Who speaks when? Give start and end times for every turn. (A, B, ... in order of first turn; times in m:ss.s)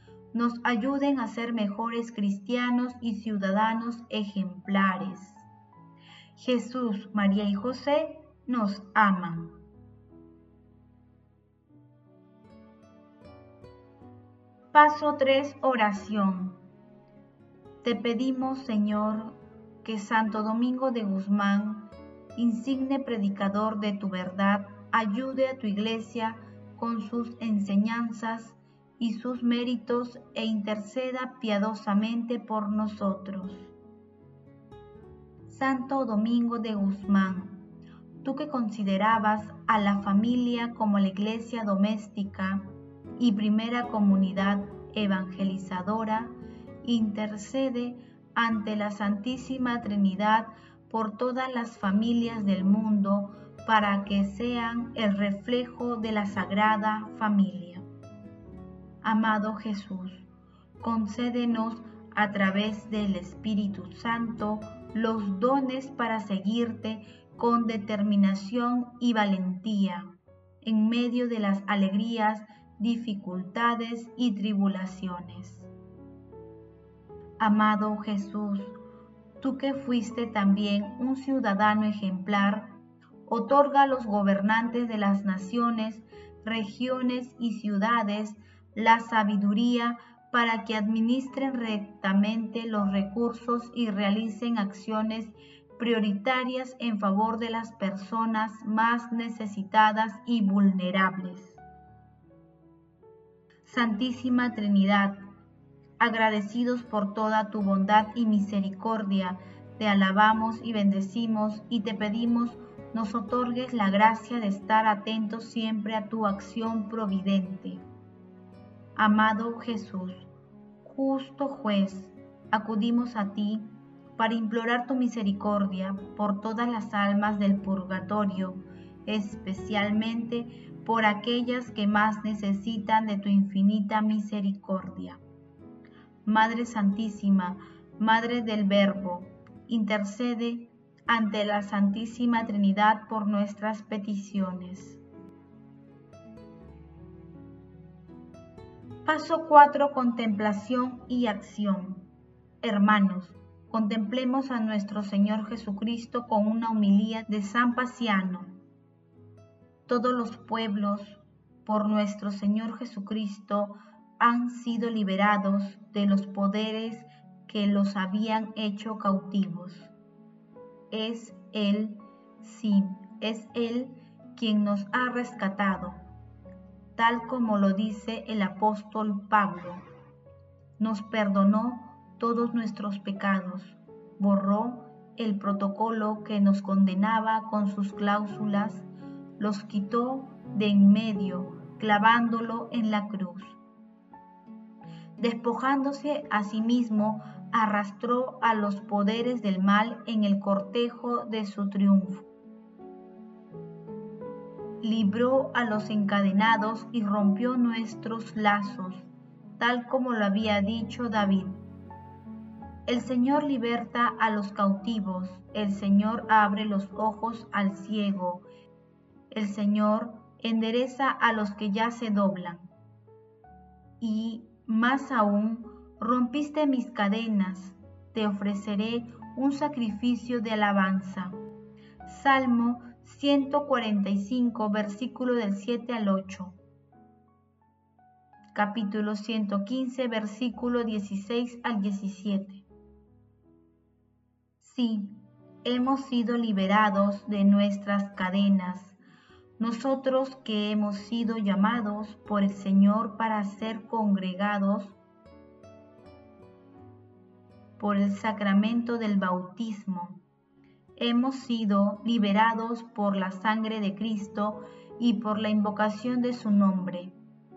0:00.3-0:05.5 A
0:06.4-0:09.6 A
0:14.7-0:16.6 A
0:17.8-0:33.7 A
0:35.5-0:37.7 A
0:38.2-0:57.8 A
0:59.0-1:00.3 A
1:00.8-1:15.7 A
1:17.4-1:18.8 A
1:19.4-1:41.6 A
1:43.6-1:45.2 A
1:46.0-1:57.8 A
1:59.0-2:00.3 A
2:00.8-2:15.2 A
2:16.2-2:25.0 A
2:29.0-2:32.1 A
2:32.6-2:38.6 A
2:39.9-2:49.9 A
2:50.9-2:56.0 A
2:57.0-2:59.8 A
3:00.8-3:08.9 A
3:09.4-3:13.6 A
3:15.2-3:22.3 A
3:24.8-3:31.6 A
3:32.8-3:38.4 A
3:39.3-3:42.7 A
3:44.0-3:51.4 A
3:52.1-3:56.6 A
3:58.5-4:02.6 A
4:04.6-4:09.0 A
4:09.6-4:15.0 A
4:17.8-4:20.2 A
4:21.0-4:27.2 A